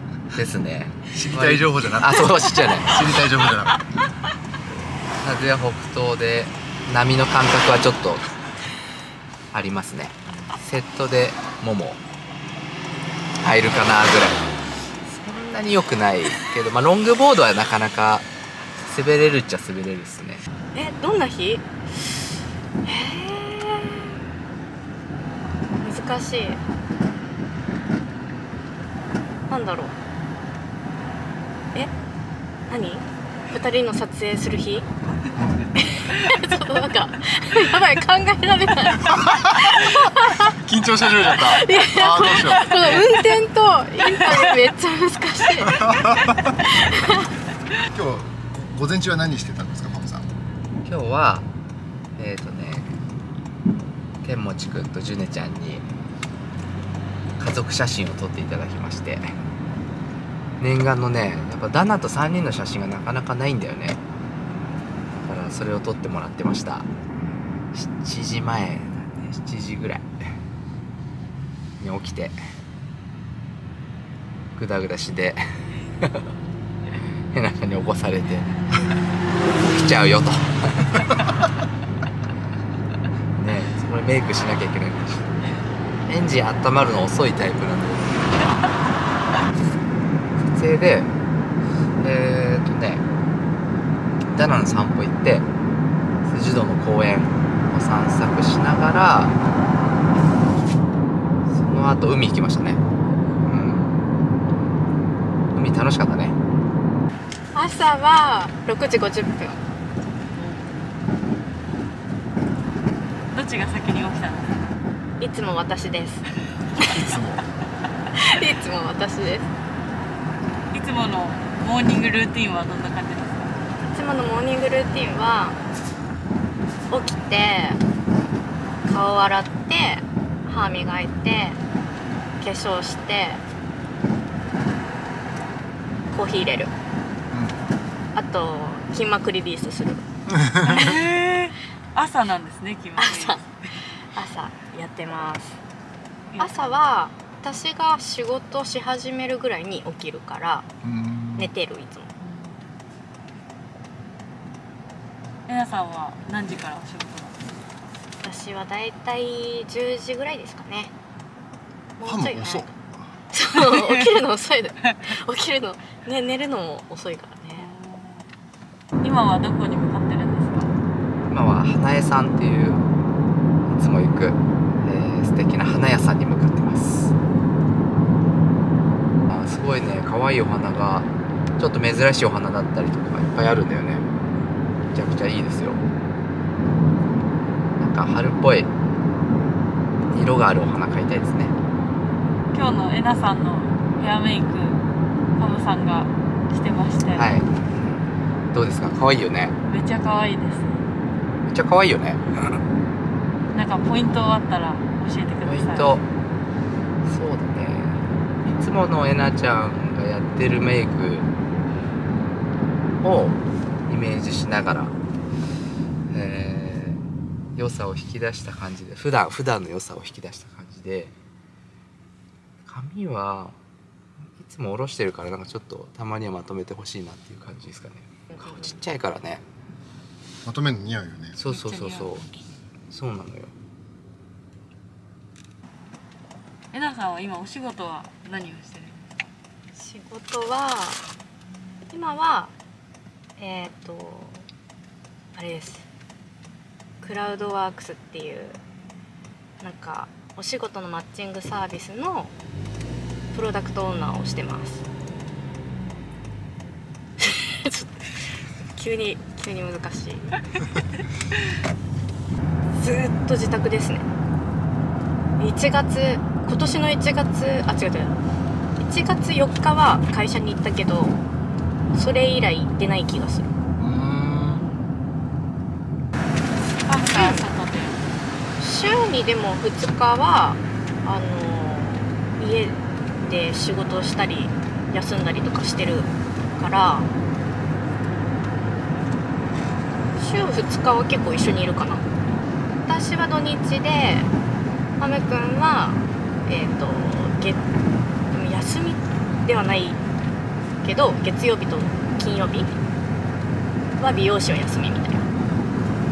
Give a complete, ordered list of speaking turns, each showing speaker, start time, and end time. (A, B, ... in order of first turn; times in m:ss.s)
0:00.3-0:03.1 A
0:01.1-0:03.8 B
0:05.2-0:08.3 A
0:09.5-0:12.0 A
0:13.4-0:14.5 A
0:15.0-0:20.4 A
0:20.7-0:22.2 C
0:22.8-0:24.2 C
0:25.8-0:26.6 C
0:29.5-0:30.0 C
0:32.7-0:34.9 C
0:35.4-0:35.6 B
0:35.8-0:40.5 C
0:39.1-0:42.9 B
0:41.4-0:47.3 C
0:45.7-0:46.5 B
0:47.9-0:50.3 B
0:50.8-0:51.5 A
0:52.2-0:53.0 A
0:54.2-0:55.9 A
0:57.4-0:59.3 A
1:00.6-1:04.0 A
1:05.2-1:06.9 A
1:07.7-1:10.4 A
1:11.8-1:12.4 A
1:14.6-1:16.3 A
1:16.9-1:18.6 A
1:19.4-1:21.2 A
1:23.4-1:25.3 A
1:26.1-1:28.3 A
1:30.4-1:31.1 A
1:32.0-1:33.0 A
1:34.3-1:35.5 A
1:36.2-1:39.3 A
1:41.5-1:42.8 A
1:43.4-1:44.0 A
1:45.5-1:46.4 A
1:47.5-1:49.6 C
1:50.3-1:51.0 D
1:53.3-1:54.7 D
1:55.2-1:57.0 C
1:56.8-1:57.5 B
1:58.1-1:59.5 C
2:00.7-2:03.6 D
2:03.9-2:05.6 C
2:06.9-2:07.8 C
2:08.8-2:11.6 C
2:12.4-2:13.4 C
2:16.1-2:16.7 C
2:17.3-2:17.6 B
2:18.1-2:20.0 C
2:20.3-2:21.0 B
2:20.6-2:23.8 D
2:23.0-2:25.6 C
2:26.3-2:26.6 D
2:26.4-2:30.7 C
2:30.8-2:31.5 B
2:31.4-2:32.1 C
2:32.2-2:32.6 D
2:35.5-2:37.4 D
2:38.2-2:40.9 C
2:42.0-2:42.7 C
2:42.0-2:43.1 B
2:43.3-2:47.7 C
2:47.6-2:48.3 D
2:49.0-2:50.7 D
2:51.3-2:52.8 A
2:53.7-2:57.1 A
2:59.3-3:04.1 A
3:04.9-3:05.8 A
3:07.8-3:08.7 A
3:10.1-3:11.6 A
3:12.5-3:14.8 D
3:15.4-3:17.3 D
3:17.1-3:19.6 A
3:19.7-3:20.9 D
3:21.4-3:22.6 A
3:23.5-3:25.9 D
3:25.4-3:26.1 A
3:27.0-3:31.3 A
3:33.0-3:34.9 A
3:36.1-3:37.0 A
3:37.6-3:41.1 A
3:42.6-3:43.6 A
3:44.3-3:49.4 A
3:50.4-3:51.4 B
3:51.4-3:52.2 A
3:51.4-3:52.4 D
3:52.9-3:53.5 A
3:56.7-3:59.3 D
3:59.8-4:01.1 C
4:01.9-4:02.5 C
4:03.4-4:04.5 C
4:05.4-4:05.9 C
4:07.0-4:08.6 C
4:09.6-4:12.3 C
4:13.3-4:14.8 C
4:17.2-4:20.4 C
4:22.8-4:24.1 C
4:25.4-4:28.2 C
4:28.8-4:31.2 C
4:31.9-4:33.5 C
4:33.8-4:34.6 B
4:36.9-4:38.1 D
4:37.1-4:37.4 C
4:38.6-4:47.1 C
4:50.2-4:52.0 C
4:52.9-4:54.3 C
4:55.0-4:57.6 C
4:58.3-5:00.0 C
5:00.8-5:02.8 C
5:04.0-5:05.2 C